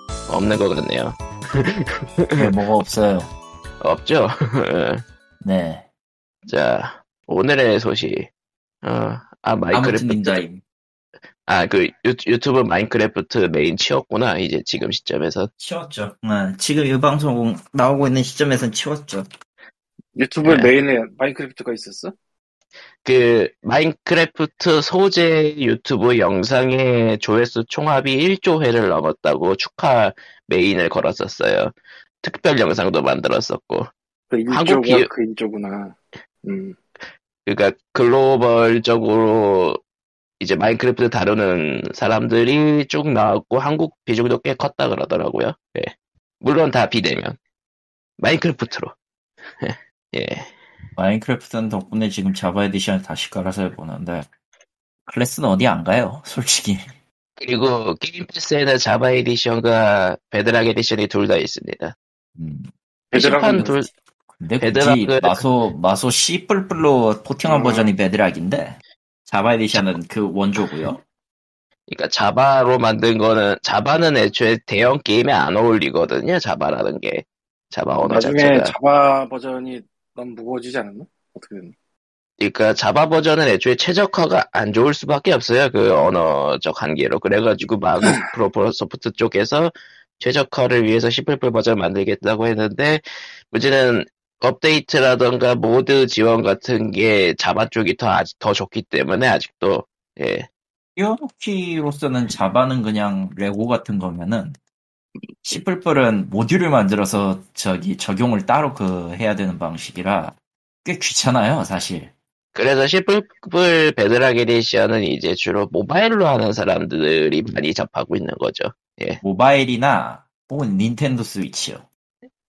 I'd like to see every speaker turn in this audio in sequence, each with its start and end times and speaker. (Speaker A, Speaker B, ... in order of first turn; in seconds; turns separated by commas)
Speaker A: 0.3-2.5, Speaker B: 2.4-3.3, Speaker A: 3.8-5.0, Speaker B: 5.4-5.9, Speaker A: 6.5-8.3, Speaker A: 8.8-10.4, Speaker B: 9.7-10.6, Speaker A: 11.5-15.5, Speaker B: 15.6-19.3, Speaker C: 20.1-22.1, Speaker A: 20.4-20.7, Speaker A: 23.0-33.9, Speaker C: 34.3-36.8, Speaker A: 34.5-35.1, Speaker A: 37.4-39.8, Speaker A: 40.4-47.4, Speaker A: 48.2-48.9, Speaker A: 49.6-50.5, Speaker B: 51.0-54.3, Speaker B: 55.0-56.8, Speaker A: 57.4-61.9, Speaker B: 62.4-62.7, Speaker C: 63.1-63.7, Speaker A: 63.1-63.9, Speaker B: 63.5-71.0, Speaker A: 64.6-65.4, Speaker C: 67.5-67.9, Speaker A: 71.9-78.7, Speaker C: 78.0-81.7, Speaker A: 82.4-100.5, Speaker B: 101.0-104.6, Speaker B: 105.4-112.1, Speaker A: 112.5-119.2, Speaker B: 119.2-121.8